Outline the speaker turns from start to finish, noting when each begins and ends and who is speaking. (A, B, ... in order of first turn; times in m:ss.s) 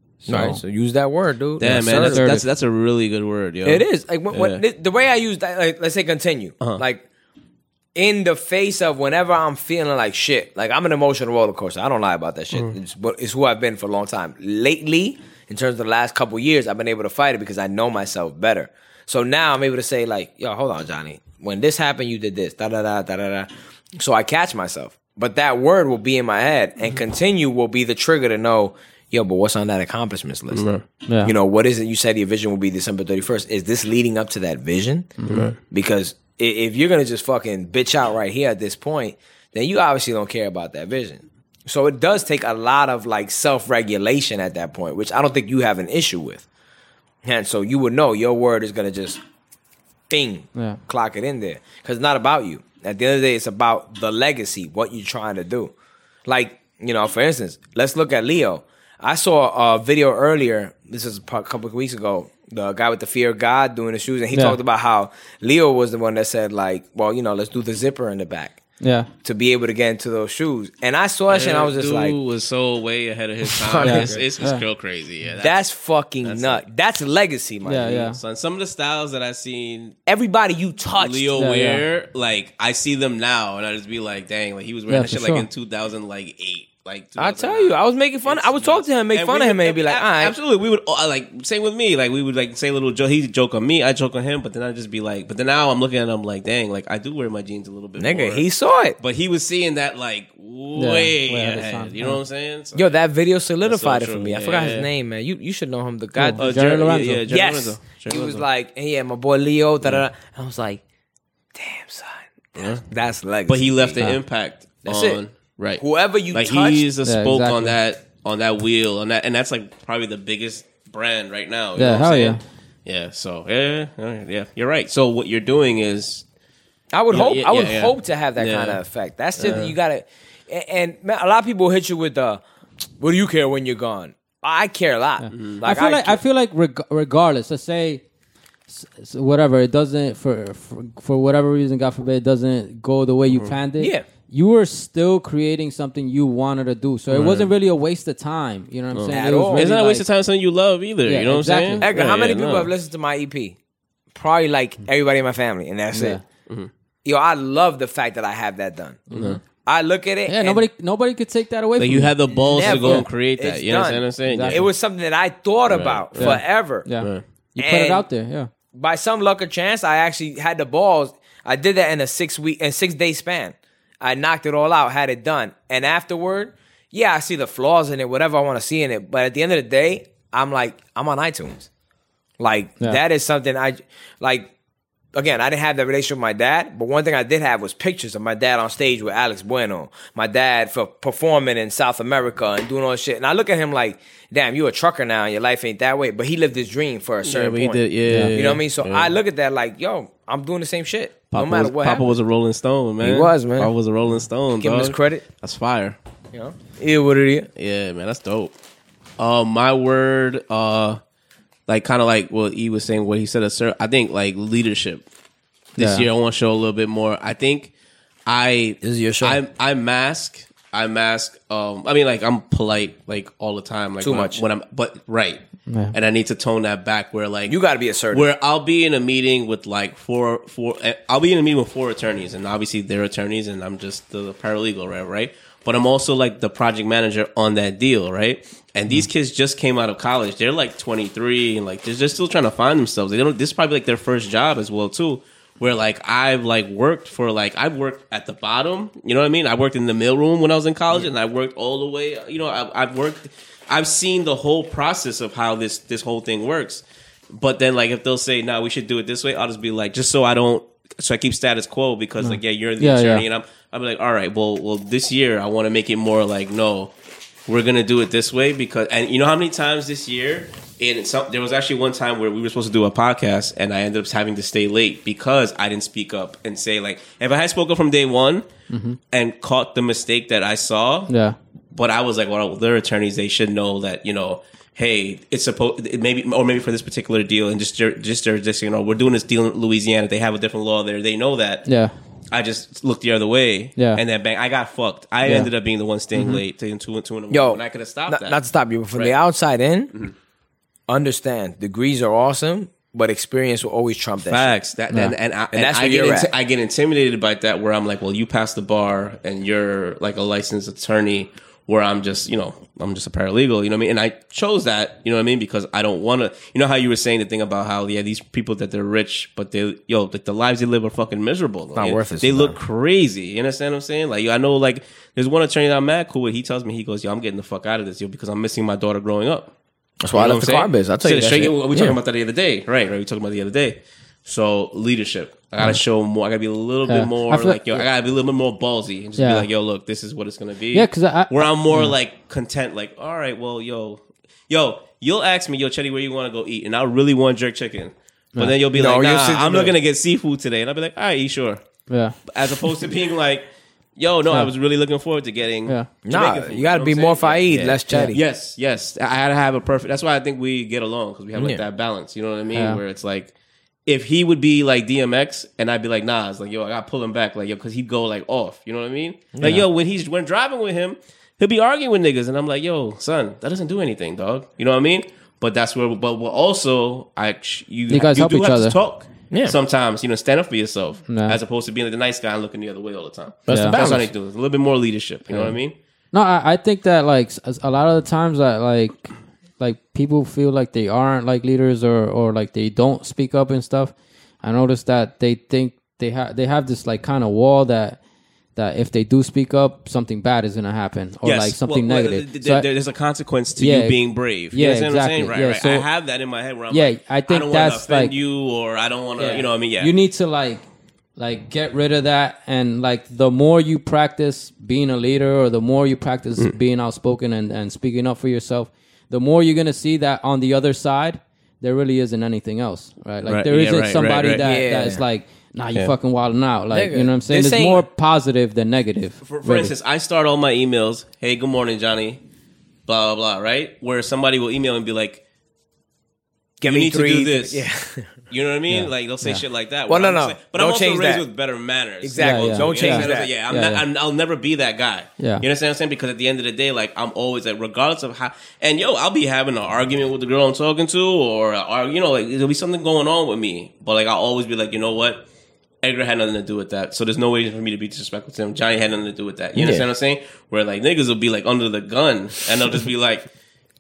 0:00.2-0:00.6 A
0:00.3-0:02.3 B
0:01.6-0:04.6 C
0:01.6-0:02.5 A
0:03.6-0:07.0 B
0:07.9-0:30.6 B
0:30.5-0:30.8 C
0:31.1-0:31.3 A
0:31.2-0:35.1 B
0:35.2-0:35.5 A
0:35.3-0:35.6 C
0:35.7-0:46.4 B
0:47.2-0:49.2 B
0:50.1-0:55.7 B
0:50.5-0:50.8 A
0:56.2-1:08.6 B
1:04.3-1:04.6 A
1:08.8-1:09.1 A
1:09.2-1:12.2 B
1:11.3-1:15.6 C
1:13.4-1:14.2 B
1:13.8-1:14.6 A
1:15.4-1:18.0 B
1:16.2-1:16.6 C
1:17.6-1:18.2 A
1:18.0-1:20.0 C
1:20.1-1:21.3 B
1:21.0-1:38.4 C
1:21.4-1:21.8 A
1:24.9-1:25.5 A
1:27.2-1:30.3 B
1:38.0-1:39.0 B
1:39.0-1:42.9 C
1:40.8-1:42.2 A
1:42.7-1:46.5 B
1:43.6-1:44.9 C
1:46.2-1:47.2 A
1:46.4-1:48.4 C
1:47.3-1:50.8 B
1:51.5-1:54.0 B
1:52.6-1:52.8 C
1:53.5-2:06.2 C
1:54.8-1:55.2 B
1:55.8-1:56.8 B
1:57.0-1:57.8 A
2:01.8-2:02.4 A
2:06.9-2:12.4 B
2:07.1-2:08.8 C
2:09.4-2:09.8 C
2:13.0-2:16.2 B
2:15.2-2:18.0 A
2:15.3-2:15.6 C
2:18.7-2:30.1 A
2:23.8-2:24.0 B
2:27.1-2:27.5 C
2:28.9-2:32.7 C
2:29.1-2:29.7 B
2:31.0-2:31.9 A
2:31.8-2:33.6 B
2:34.1-2:36.2 B
2:35.9-2:36.2 A
2:37.0-2:40.6 B
2:39.1-2:39.4 A
2:39.1-2:39.4 C
2:40.2-2:43.0 A
2:41.8-2:44.7 C
2:42.3-2:46.9 B
2:44.2-2:44.6 A
2:45.7-2:46.4 C
2:46.2-2:48.5 A
2:47.0-2:47.2 C
2:47.6-2:48.1 B
2:48.7-3:01.7 B
3:02.4-3:04.5 B
3:05.1-3:22.1 B
3:17.2-3:19.1 C
3:18.1-3:18.4 A
3:21.3-3:26.0 C
3:23.0-3:23.7 B
3:24.6-3:25.2 B
3:26.3-3:27.5 B
3:27.6-3:28.5 C
3:29.2-3:31.0 C
3:31.7-3:35.0 C
3:35.7-3:37.7 C
3:35.8-3:36.1 A
3:38.2-3:45.4 C
3:38.8-3:39.4 B
3:44.0-3:44.4 B
3:45.7-3:45.9 A
3:45.9-3:47.6 C
3:47.5-3:48.3 B
3:48.1-4:26.9 C
4:22.2-4:23.2 A
4:27.5-4:38.4 C
4:38.7-4:39.0 A
4:39.1-4:41.1 C
4:41.1-4:41.4 A
4:41.7-4:51.7 C
4:51.6-4:51.9 A
4:52.3-4:58.4 C
4:53.8-4:54.0 A
4:55.2-4:55.5 A
4:56.2-4:56.4 A
4:57.3-4:59.9 B
4:58.9-4:59.2 C
5:00.9-5:04.6 B
5:04.2-5:29.5 C
5:05.5-5:06.3 B
5:21.8-5:22.6 B
5:30.0-5:32.0 B
5:30.1-5:51.6 C
5:36.9-5:37.8 A
5:39.2-5:39.5 A
5:40.7-5:42.0 A
5:48.7-5:49.7 B
5:51.9-5:52.2 A
5:52.3-6:03.3 C
5:56.0-5:58.2 B
5:57.9-5:58.2 A
6:01.4-6:01.6 B
6:02.5-6:02.8 A
6:03.8-6:25.7 C
6:09.3-6:09.6 B
6:17.9-6:18.8 A
6:19.3-6:19.6 B
6:21.1-6:21.4 A
6:23.5-6:24.1 B
6:23.5-6:23.9 A
6:25.3-6:25.6 A
6:26.1-6:38.0 A
6:38.5-6:42.7 A
6:41.2-6:49.9 C
6:43.6-6:44.0 A
6:44.5-6:45.9 A
6:46.7-6:48.1 A
6:49.2-6:50.6 A
6:51.2-7:09.7 A
7:03.2-7:04.5 C
7:04.4-7:05.0 B
7:06.7-7:07.8 B
7:09.2-7:12.2 C
7:12.9-7:15.2 C
7:16.6-7:18.1 B
7:16.6-7:17.6 C
7:18.3-7:35.2 C
7:18.7-7:19.4 A
7:19.9-7:21.2 B
7:22.0-7:23.3 B
7:22.2-7:23.8 A
7:25.2-7:25.4 A
7:35.8-7:43.3 C
7:39.6-7:39.8 B